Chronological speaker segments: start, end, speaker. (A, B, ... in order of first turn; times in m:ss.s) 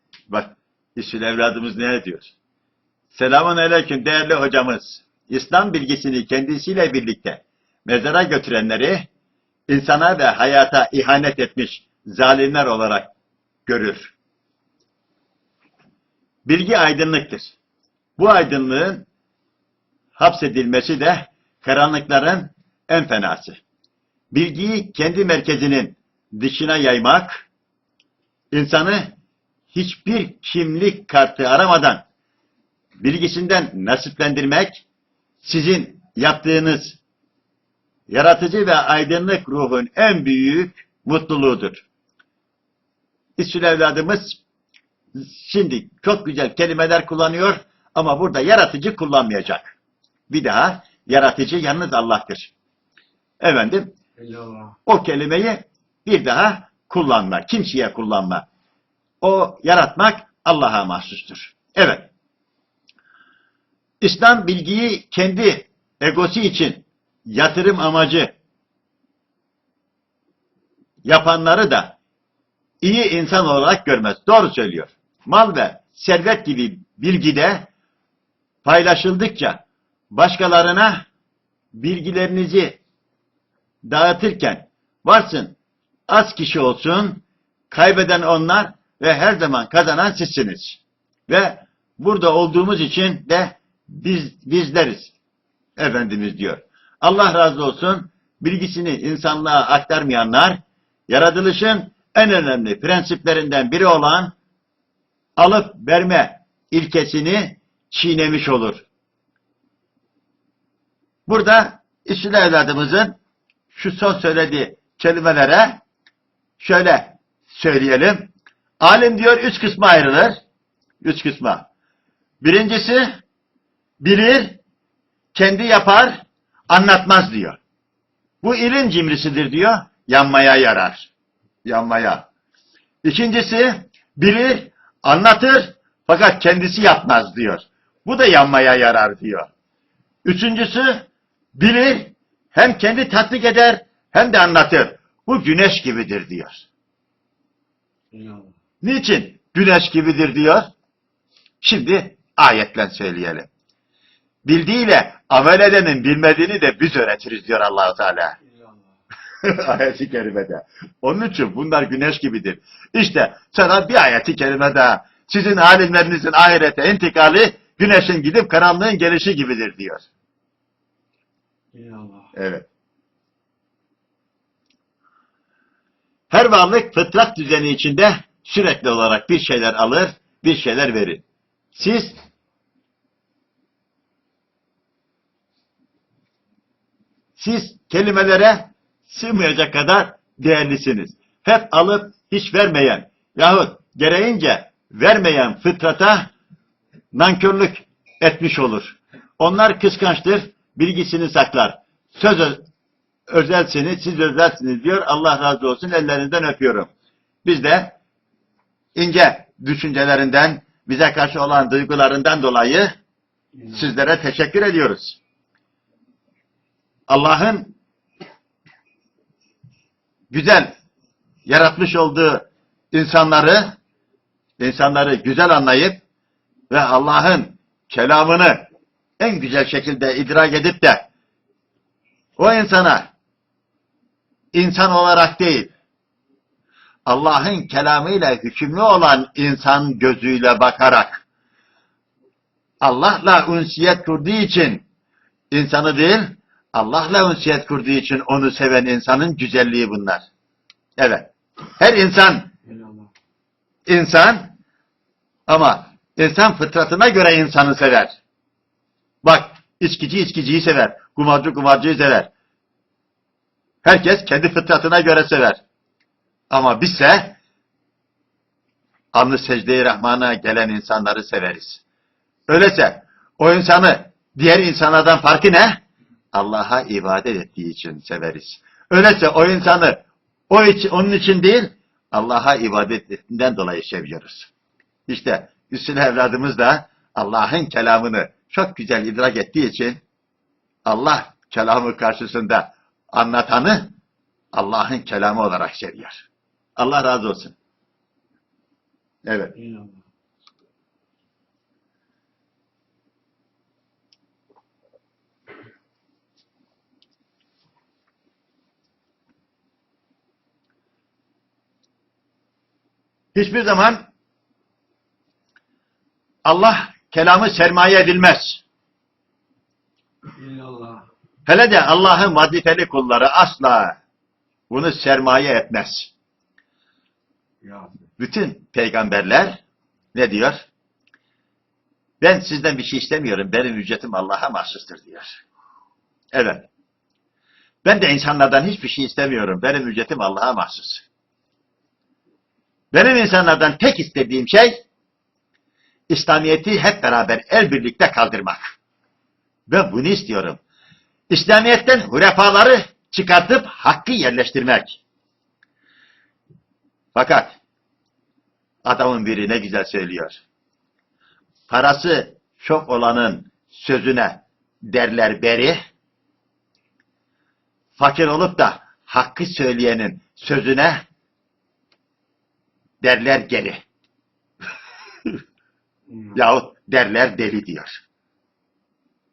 0:00.3-0:02.3 A
0:03.1-0:09.1 A
0:09.7-0:13.1 A
0:13.6-0:14.1 A
0:16.4-0:17.6 A
0:18.2-0:19.1 A
0:20.1-0:23.6 A
0:24.3-0:27.5 A
0:28.5-0:29.2 A
0:29.7-0:32.0 A
0:33.0-0:34.8 A
0:35.4-0:37.0 A
0:38.1-0:41.8 A
0:43.4-0:44.4 A
0:45.1-0:49.8 A
0:50.3-0:52.5 A
0:53.4-0:53.9 A
0:54.2-0:54.8 B
0:54.8-0:58.4 A
0:59.2-1:02.1 A
1:04.0-1:08.3 A
1:11.0-1:12.0 A
1:12.8-1:17.7 A
1:18.6-1:21.1 A
1:21.7-1:22.8 A
1:23.8-1:25.6 A
1:26.1-1:35.1 A
1:35.8-1:44.3 A
1:45.4-1:48.8 A
1:51.3-1:53.2 A
1:53.7-1:55.8 A
1:56.6-2:00.4 A
2:01.0-2:01.7 A
2:02.4-2:03.1 A
2:04.0-2:04.6 A
2:05.3-2:07.6 A
2:08.4-2:11.1 A
2:11.6-2:12.3 A
2:13.0-2:19.5 A
2:20.2-2:26.7 A
2:28.1-2:28.5 B
2:28.8-2:30.7 A
2:31.6-2:33.5 A
2:34.4-2:38.4 A
2:38.5-2:38.8 B
2:39.4-2:50.1 A
2:51.7-2:52.3 B
2:52.3-2:52.7 A
2:56.3-3:02.2 A
3:07.4-3:16.3 A
3:17.1-3:22.6 A
3:23.3-3:26.9 A
3:27.4-3:28.0 A
3:28.9-3:32.9 A
3:33.6-3:33.9 B
3:33.7-3:35.2 A
3:37.1-3:37.7 A
3:40.3-3:40.7 A
3:41.5-3:43.8 A
3:44.6-3:46.0 A
3:46.7-3:48.6 A
3:49.2-3:51.1 A
3:52.4-3:53.1 A
3:54.5-3:55.7 A
3:57.1-4:01.2 A
4:02.8-4:04.8 A
4:05.5-4:10.2 A
4:11.0-4:12.5 A
4:12.6-4:13.1 B
4:13.9-4:14.5 A
4:15.5-4:18.1 A
4:19.2-4:22.3 A
4:23.8-4:25.6 A
4:26.5-4:27.4 A
4:29.1-4:31.8 A
4:32.5-4:35.8 A
4:36.3-4:44.5 A
4:45.1-4:50.0 A
4:50.8-4:53.9 A
4:54.5-4:56.3 A
4:56.8-4:57.6 A
4:59.2-4:59.5 A
4:59.6-5:00.0 B
5:13.3-5:14.0 A
5:16.4-5:18.6 A
5:20.3-5:21.0 B
5:21.4-5:24.0 A
5:24.7-5:26.1 A
5:27.6-5:27.9 B
5:28.2-5:29.6 A
5:30.1-5:30.7 A
5:32.2-5:35.4 A
5:36.3-5:36.7 A
5:37.8-5:41.0 A
5:42.9-5:44.8 A
5:46.1-5:48.7 A
5:49.7-5:50.6 A
5:51.3-5:55.0 A
5:57.1-5:57.6 A
5:58.8-6:00.4 A
6:01.7-6:05.8 A
6:08.0-6:11.0 A
6:13.0-6:13.8 A
6:16.1-6:16.4 B
6:16.3-6:18.0 A